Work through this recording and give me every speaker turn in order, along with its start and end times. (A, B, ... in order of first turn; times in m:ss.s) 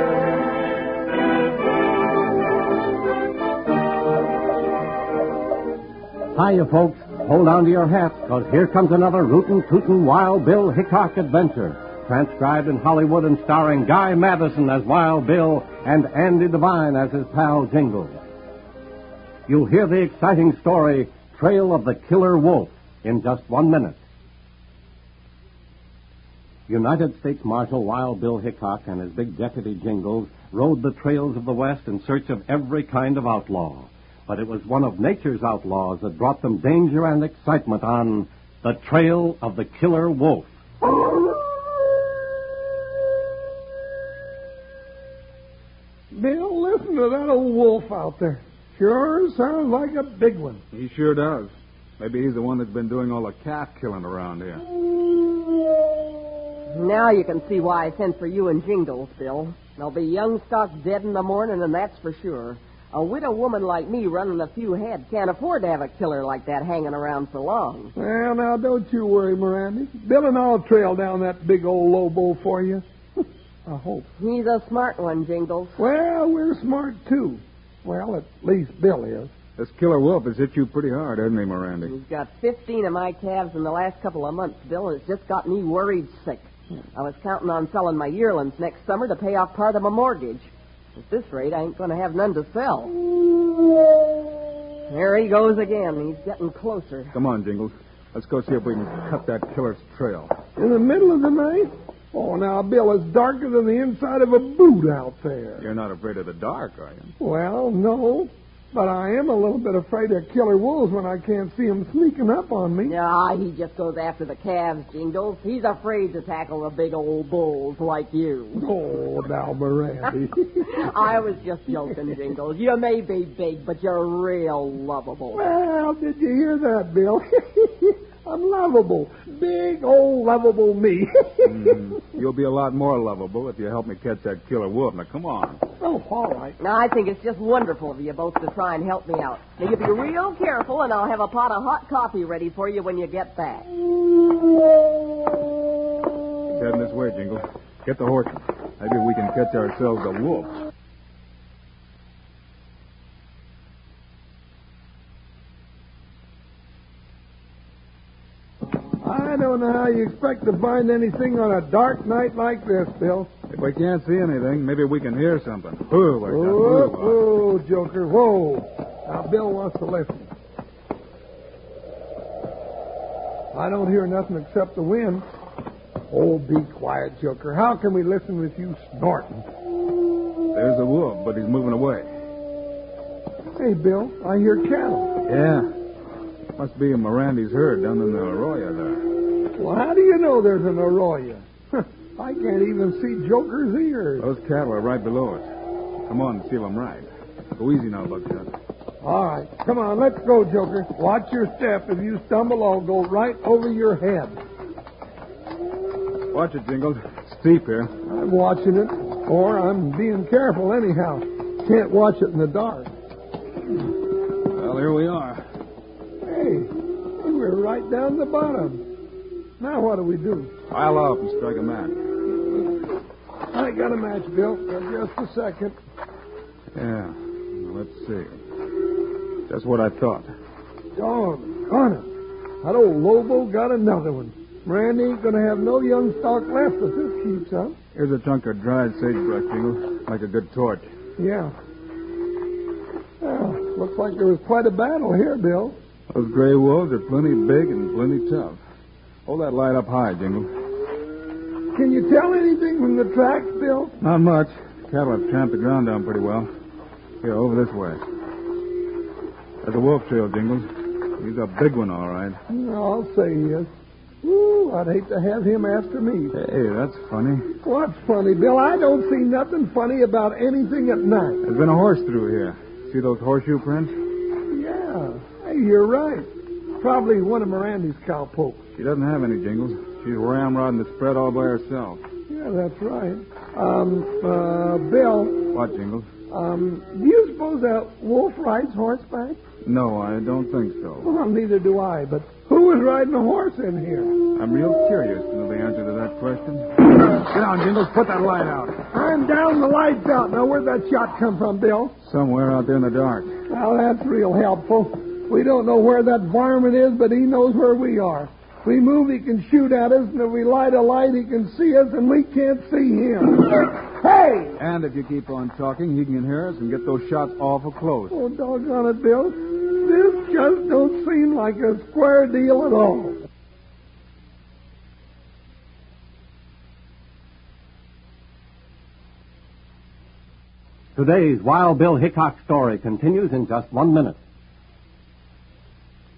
0:06.3-0:18.2 A
0:19.5-0:24.0 A
0:26.7-0:40.5 A
0:46.1-0:50.6 B
0:50.7-0:54.6 C
0:56.7-1:07.9 D
1:08.0-1:14.1 B
1:14.2-1:15.8 D
1:15.8-1:19.3 B
1:19.6-1:21.9 C
1:21.8-1:32.9 D
1:34.9-1:37.1 D
1:37.1-1:40.3 C
1:40.6-1:45.7 B
1:45.6-1:47.1 C
1:47.2-1:53.0 B
1:52.8-1:58.6 D
1:58.5-2:00.9 B
2:00.6-2:05.5 D
2:05.3-2:11.8 B
2:11.4-2:15.6 C
2:15.8-2:16.6 B
2:16.6-2:23.7 D
2:26.5-2:30.5 C
2:39.0-2:43.3 B
2:43.5-2:47.2 C
2:46.3-2:50.3 B
2:53.5-2:55.3 B
2:56.1-2:59.4 B
3:00.5-3:02.1 C
3:03.6-3:05.2 B
3:05.2-3:05.7 C
3:06.6-3:09.0 C
3:09.5-3:14.3 B
3:14.2-3:15.4 C
3:16.1-3:18.5 C
3:19.0-3:24.4 B
3:26.3-3:27.9 C
3:28.1-3:32.9 B
3:34.5-3:35.4 C
3:36.2-3:38.8 B
3:39.6-3:40.5 B
3:40.7-3:42.0 C
3:43.5-3:45.8 B
3:46.7-3:48.3 C
3:49.5-3:50.3 C
3:50.9-3:52.1 B
3:52.6-3:57.8 B
3:57.9-4:00.9 C
4:01.2-4:01.6 B
4:03.2-4:05.8 B
4:06.1-4:08.6 C
4:09.3-4:10.5 C
4:11.7-4:13.9 B
4:14.0-4:16.5 C
4:17.2-4:18.0 C
4:19.6-4:22.4 C
4:22.5-4:26.3 B
4:26.3-4:27.5 C
4:27.6-4:31.4 B
4:31.4-4:33.9 C
4:34.5-4:38.6 B
4:38.8-4:42.0 C
4:42.3-4:45.4 B
4:45.5-4:46.1 C
4:46.3-4:49.4 B
4:49.6-4:51.1 C
4:51.0-4:54.2 B
4:54.3-4:58.8 C
4:58.9-5:01.9 B
5:02.0-5:03.3 C
5:03.5-5:14.6 B
5:14.6-5:18.2 C
5:18.1-5:23.2 B
5:31.0-5:34.2 A